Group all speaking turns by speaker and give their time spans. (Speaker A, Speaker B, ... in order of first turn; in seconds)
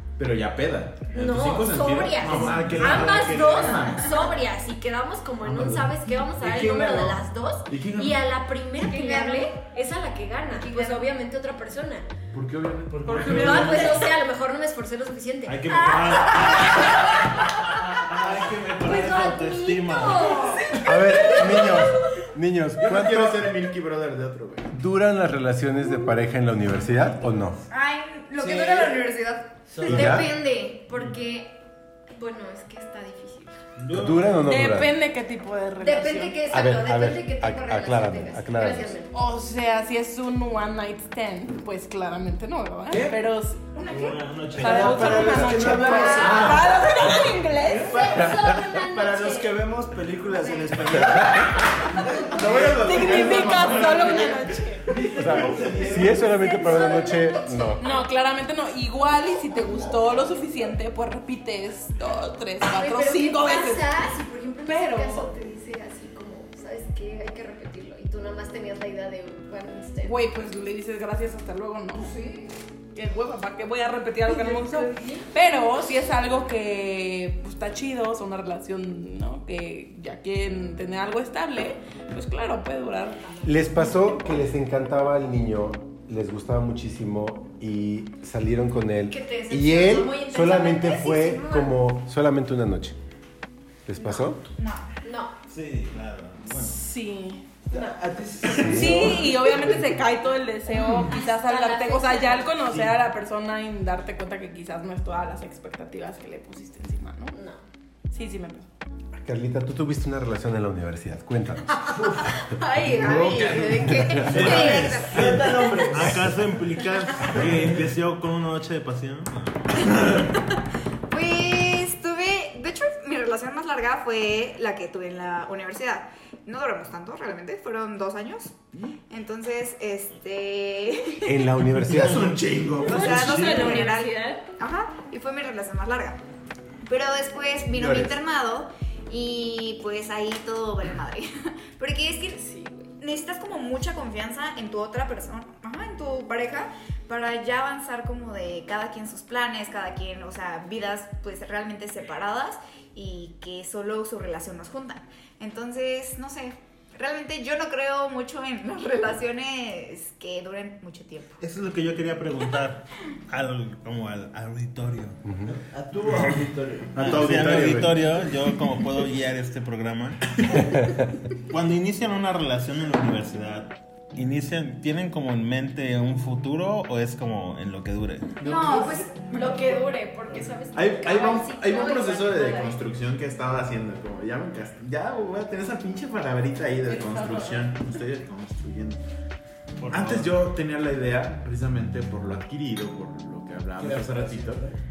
Speaker A: 0.2-4.1, 5.4-8.2, 12.3-13.9, 22.8-24.7, 29.8-30.3, 46.2-46.7, 52.3-56.4, 113.0-115.3, 131.8-133.9, 137.7-138.2, 167.1-167.7, 180.7-189.0, 189.9-194.6
Speaker B: 1.1-12.1, 13.2-17.1, 18.8-20.6, 21.4-21.8, 30.5-31.6, 32.1-33.6, 35.8-39.1, 47.9-49.6, 56.7-57.6, 62.6-70.3, 74.4-75.2, 83.2-84.0, 89.1-91.8, 94.0-94.3, 95.0-95.3, 101.0-102.7, 107.3-107.6, 112.4-115.1, 132.8-134.4, 142.3-142.9, 178.4-182.8, 187.1-187.4
Speaker C: 2.2-2.6, 8.8-9.6, 10.5-11.1, 20.3-20.6, 27.7-30.8, 45.9-46.3, 56.6-57.3, 72.0-72.5, 94.5-94.9, 113.0-115.3, 121.1-131.5, 132.8-136.2, 136.8-142.4, 143.0-161.3, 178.4-179.9
Speaker D: 2.3-3.9, 15.4-20.4, 33.8-34.4, 43.9-45.5, 95.5-96.8, 114.3-119.9, 161.4-165.2, 166.9-170.6, 171.4-178.4, 189.8-190.4
Speaker E: 12.8-13.8, 28.4-29.0, 29.7-30.2, 42.9-43.2, 44.6-46.8, 47.7-51.7, 52.3-52.9, 97.7-99.8, 114.4-116.2, 165.4-167.6, 193.7-194.8
Speaker F: 20.8-23.5, 24.7-27.6, 33.9-34.9, 36.5-38.9, 55.1-57.8, 83.4-93.0, 93.8-94.4, 98.5-99.2, 109.2-111.8, 113.8-114.6, 131.2-132.4, 165.2-165.5, 166.9-168.1
Speaker G: 34.5-36.3, 39.1-47.9, 52.8-54.9, 57.8-63.9, 64.6-65.3, 70.0-72.1, 72.9-83.2, 96.5-97.4, 98.7-107.4, 108.1-108.7